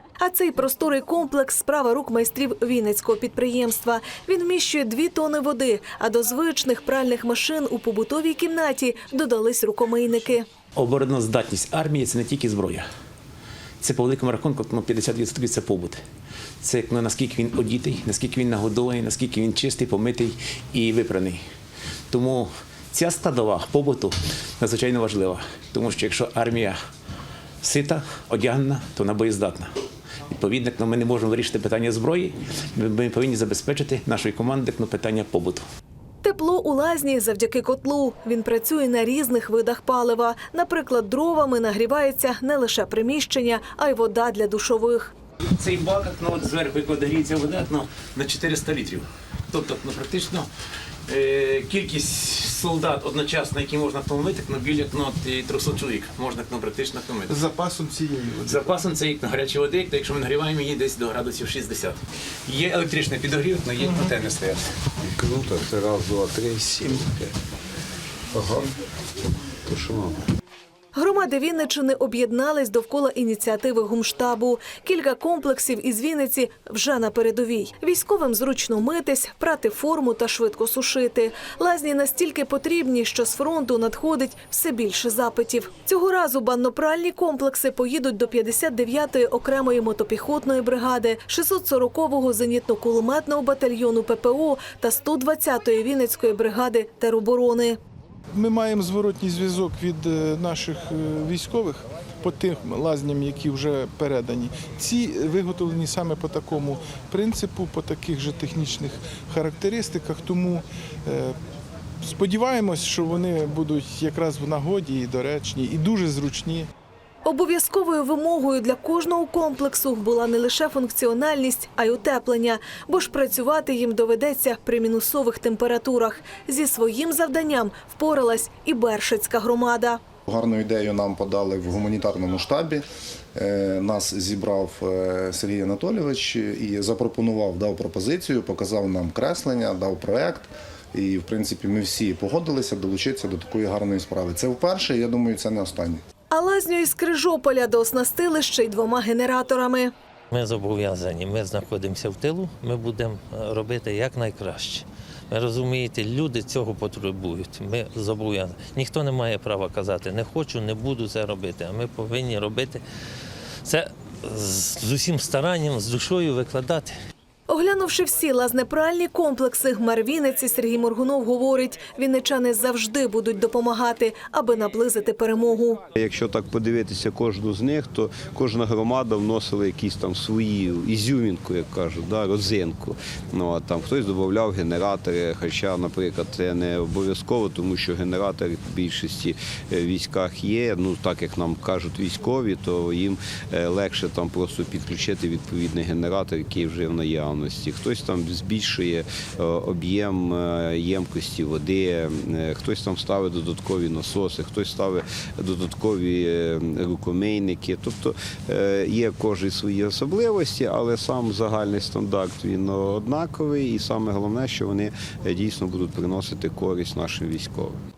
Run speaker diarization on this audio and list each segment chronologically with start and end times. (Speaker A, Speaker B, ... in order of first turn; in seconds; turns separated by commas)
Speaker A: 0.2-10.4, Speaker B: 10.8-12.8, Speaker B: 13.8-16.0, Speaker B: 16.6-21.4, Speaker B: 22.1-26.8, Speaker B: 27.6-29.7, Speaker B: 30.3-35.6, Speaker A: 36.2-45.1, Speaker B: 45.5-50.5, Speaker B: 51.1-57.4, Speaker C: 57.2-58.8, Speaker B: 58.4-64.6, Speaker D: 65.1-67.3, Speaker D: 68.3-68.7, Speaker D: 69.6-70.2, Speaker A: 70.9-97.8, Speaker C: 98.3-111.3, Speaker C: 112.0-116.7, Speaker A: 117.2-130.0, Speaker E: 130.3-132.8, Speaker E: 133.3-146.0, Speaker A: 146.3-149.9, Speaker F: 150.3-162.8, Speaker F: 163.6-166.9, Speaker A: 167.5-175.8, Speaker D: 175.9-217.8